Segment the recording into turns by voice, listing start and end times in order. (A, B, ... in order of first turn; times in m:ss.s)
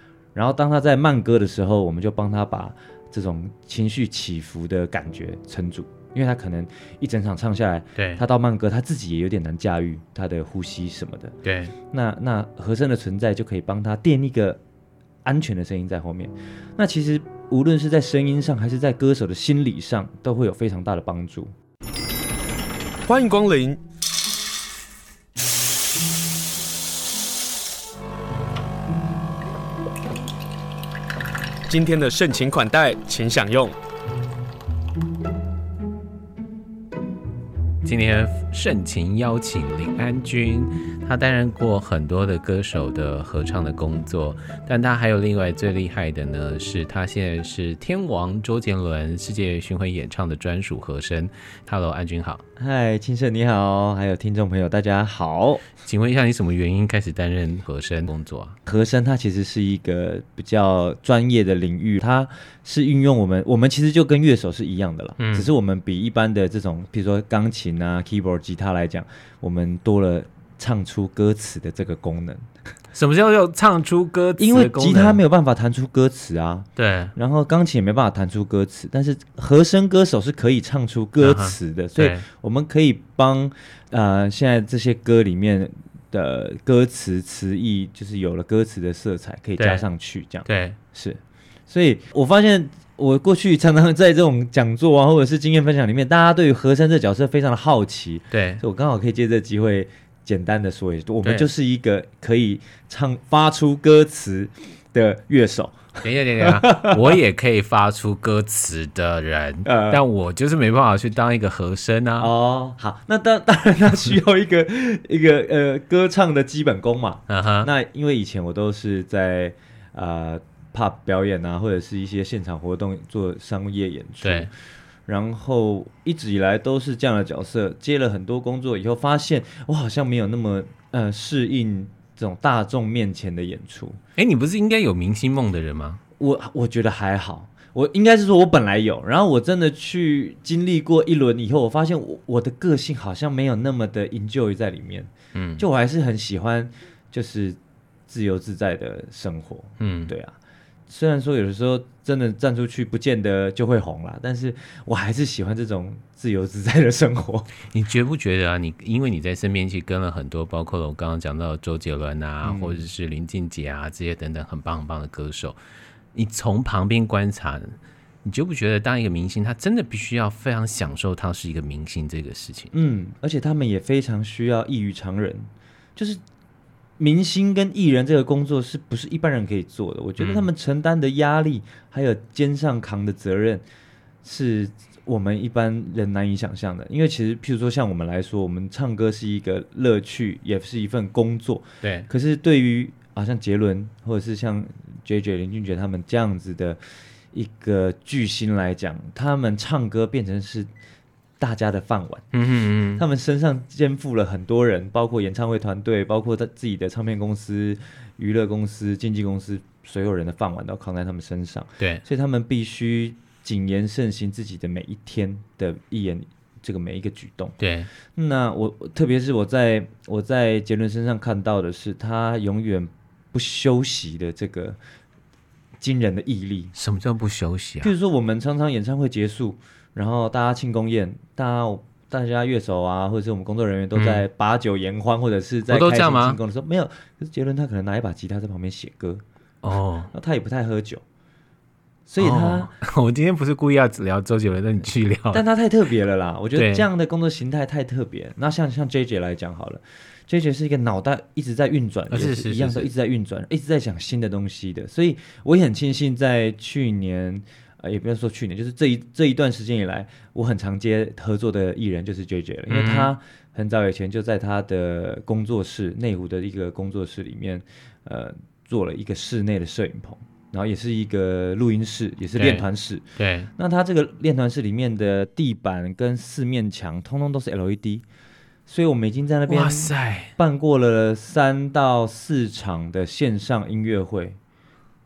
0:00.4-0:11.3 A
0:08.0-0:08.2 B
0:11.4-0:11.7 B
0:11.9-0:14.6 A
0:15.2-0:21.5 A
0:23.1-0:23.8 C
0:31.7-0:33.7 C
0:37.8-0:52.4 B
0:52.6-0:55.7 A
0:55.8-0:58.6 B
0:58.7-1:12.5 A
1:05.2-1:05.5 B
1:12.9-1:15.2 B
1:14.4-1:47.1 A
1:16.8-1:17.1 B
1:21.2-1:22.2 B
1:29.6-1:29.9 B
1:30.5-1:30.8 B
1:38.3-1:38.6 B
1:41.2-1:41.5 B
1:46.0-1:52.3 B
1:49.6-1:50.0 A
1:52.2-2:04.5 A
1:57.3-1:57.7 B
2:04.2-2:04.5 B
2:05.1-2:14.0 A
2:14.2-2:16.0 B
2:16.2-2:30.4 A
2:25.3-2:25.6 B
2:29.8-2:30.1 B
2:30.9-2:37.5 A
2:37.7-2:45.6 B
2:42.4-2:42.8 A
2:46.1-2:52.7 B
2:52.7-2:56.2 A
2:57.0-3:03.6 A
3:00.2-3:00.5 B
3:04.2-3:16.8 A
3:11.8-3:12.1 B
3:17.3-3:20.7 A
3:21.4-3:22.3 A
3:22.3-3:23.0 B
3:23.0-3:44.8 A
3:37.6-3:37.9 B
3:45.8-3:46.7 A
3:46.8-3:47.9 B
3:47.8-3:59.2 A
3:54.0-3:54.2 B
3:55.7-3:56.4 B
3:59.6-4:00.1 B
4:00.1-4:01.0 A
4:02.1-4:02.7 A
4:02.2-4:05.4 B
4:05.3-4:38.0 A
4:06.6-4:06.9 B
4:12.1-4:12.9 B
4:22.7-4:23.1 B
4:32.4-4:33.5 B
4:38.7-4:44.4 A
4:39.5-4:40.4 B